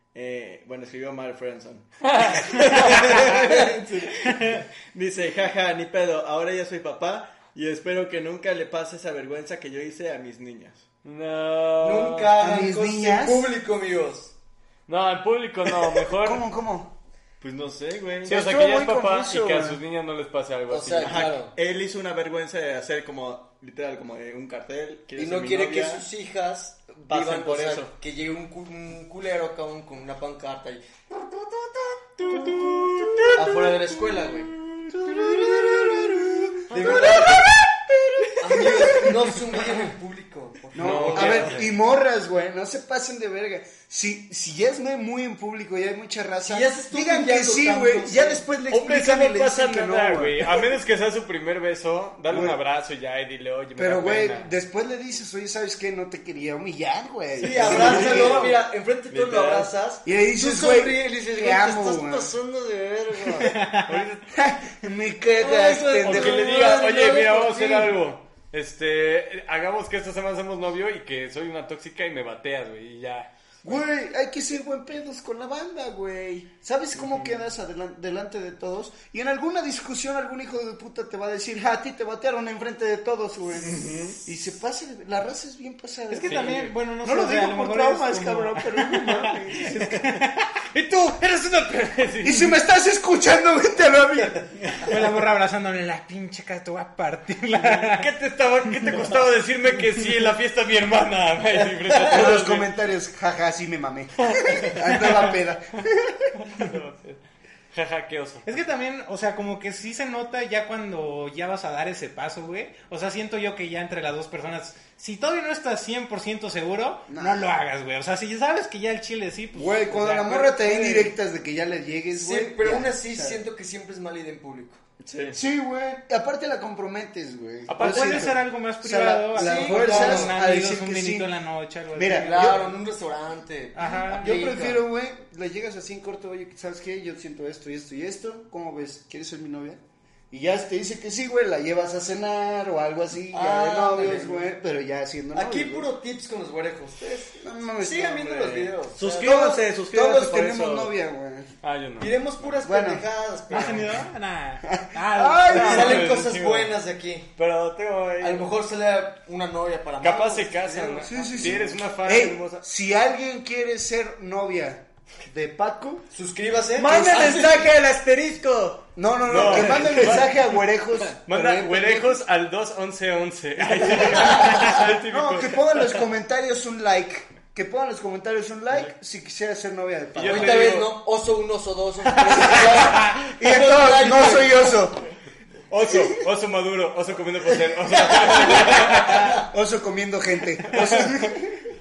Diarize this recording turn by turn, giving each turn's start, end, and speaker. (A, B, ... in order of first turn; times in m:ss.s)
0:00.1-0:10.9 A
0:02.1-0:02.8 B
0:04.3-0:04.6 C
0:11.0-0:12.3 B
0:11.8-0:14.3 D
0:12.4-0:13.5 E
0:14.9-0:16.4 B
0:16.2-0:16.9 E
0:17.4-0:18.4 A
0:18.2-0:21.3 B
0:18.3-0:19.8 E
0:20.7-0:21.5 D
0:21.0-0:26.1 A
0:25.2-0:30.8 D
0:27.1-0:27.9 A
0:31.6-0:32.5 D
0:32.4-0:33.2 A
0:32.9-0:33.4 B
0:33.3-0:34.5 D
0:35.4-0:36.4 E
0:36.7-0:37.4 D
0:36.7-0:37.6 B
0:38.4-0:41.6 D
0:40.7-0:50.5 E
0:40.8-0:41.7 B
0:46.4-0:48.4 D
0:48.7-0:54.5 B
0:52.3-0:52.6 E
0:53.8-0:58.6 E
0:57.4-1:03.6 D
0:57.4-0:58.5 A
0:57.5-0:58.6 B
0:59.1-0:59.7 A
0:59.2-0:59.6 B
1:00.0-1:02.3 E
1:03.4-1:04.0 C
1:03.8-1:04.3 B
1:04.3-1:06.7 E
1:05.4-1:08.0 D
1:06.0-1:13.8 B
1:13.6-1:30.0 E
1:23.6-1:24.2 A
1:26.1-1:30.5 C
1:26.2-1:26.7 B
1:30.7-1:32.5 B
1:32.2-1:34.5 E
1:34.6-1:34.9 A
1:34.8-1:38.1 C
1:37.6-1:42.7 B
1:41.9-1:42.2 D
1:42.1-1:46.4 E
1:46.4-1:47.2 B
1:47.7-1:48.5 B
1:48.4-2:01.1 C
1:57.1-1:57.5 E
1:59.5-2:03.4 E
2:02.2-2:04.8 D
2:05.0-2:05.4 A
2:05.3-2:11.3 E
2:07.7-2:08.4 B
2:07.8-2:12.6 C
2:09.4-2:10.4 D
2:11.9-2:12.7 E
2:12.2-2:14.8 D
2:13.7-2:14.4 C
2:13.8-2:25.9 E
2:23.3-2:24.5 D
2:25.3-2:29.4 D
2:27.4-2:31.5 E
2:28.4-2:30.9 A
2:31.6-2:32.2 B
2:32.0-2:34.0 D
2:32.6-2:33.1 E
2:33.5-2:36.0 C
2:34.6-2:36.1 E
2:35.5-2:36.7 B
2:35.5-2:37.3 D
2:37.4-2:38.5 B
2:38.2-2:41.7 D
2:40.0-2:42.6 B
2:41.0-2:46.0 E
2:46.1-2:47.7 D
2:46.8-2:50.3 A
2:46.8-2:47.4 E
2:49.0-2:52.2 E
2:49.3-2:50.4 B
2:51.3-2:55.8 B
2:54.2-3:00.7 E
3:00.2-3:01.0 B
3:00.2-3:04.7 D
3:02.4-3:05.0 E
3:05.7-3:09.4 B
3:07.9-3:09.4 D
3:08.9-3:11.7 E
3:10.7-3:11.0 B